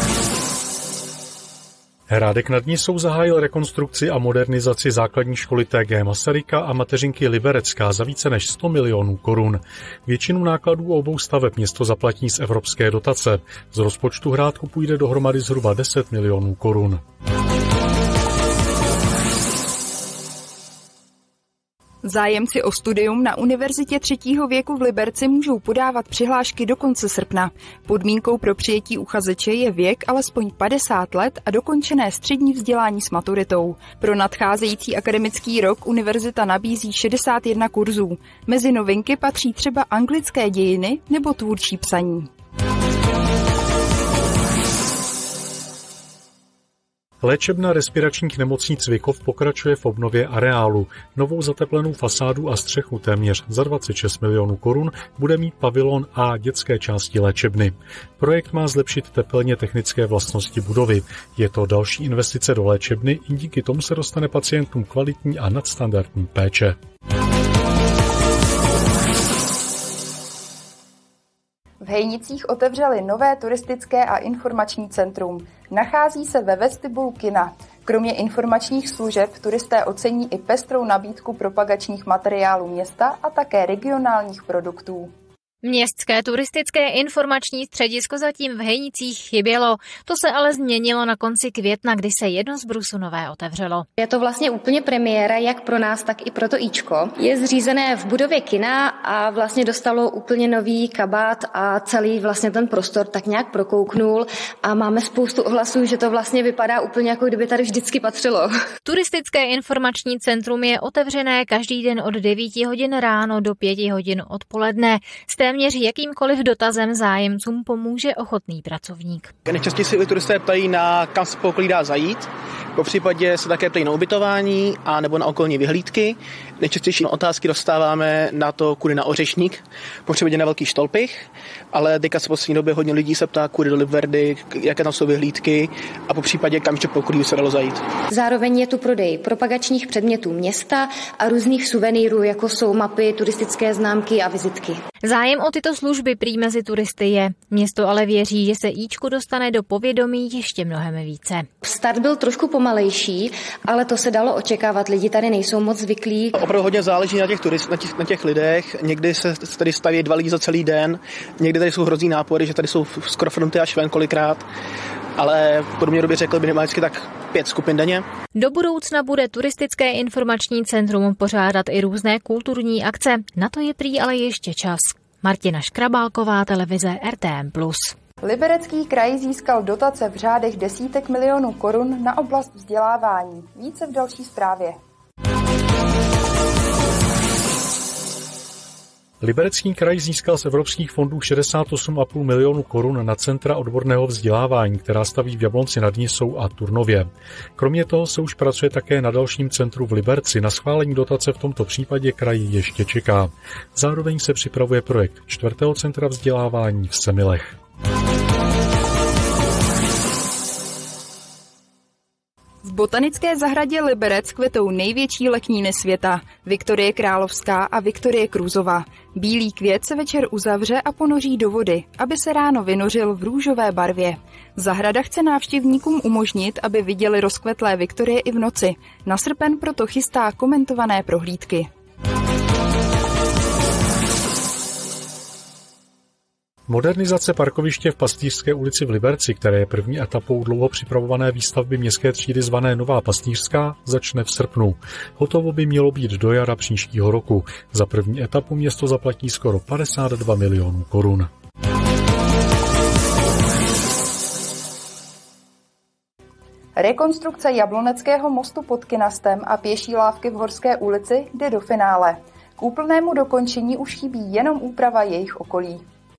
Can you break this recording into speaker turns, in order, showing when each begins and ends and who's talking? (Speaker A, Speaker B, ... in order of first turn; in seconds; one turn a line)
Speaker A: 2.1-17.0
Speaker B: 22.0-42.3
Speaker A: 47.2-66.8
Speaker B: 71.8-85.1
Speaker C: 85.6-93.8
Speaker D: 94.0-108.5
Speaker C: 108.8-119.3
Speaker E: 119.5-137.8
Speaker D: 138.1-144.8
Speaker C: 145.0-151.5
Speaker D: 151.6-156.3
Speaker E: 156.4-164.4
Speaker E: 165.2-168.0
Speaker C: 168.3-177.9
Speaker B: 178.2-184.8
Speaker A: 189.2-207.6
Speaker B: 212.6-231.7
Speaker A: 236.7-251.3
Speaker B: 256.8-265.8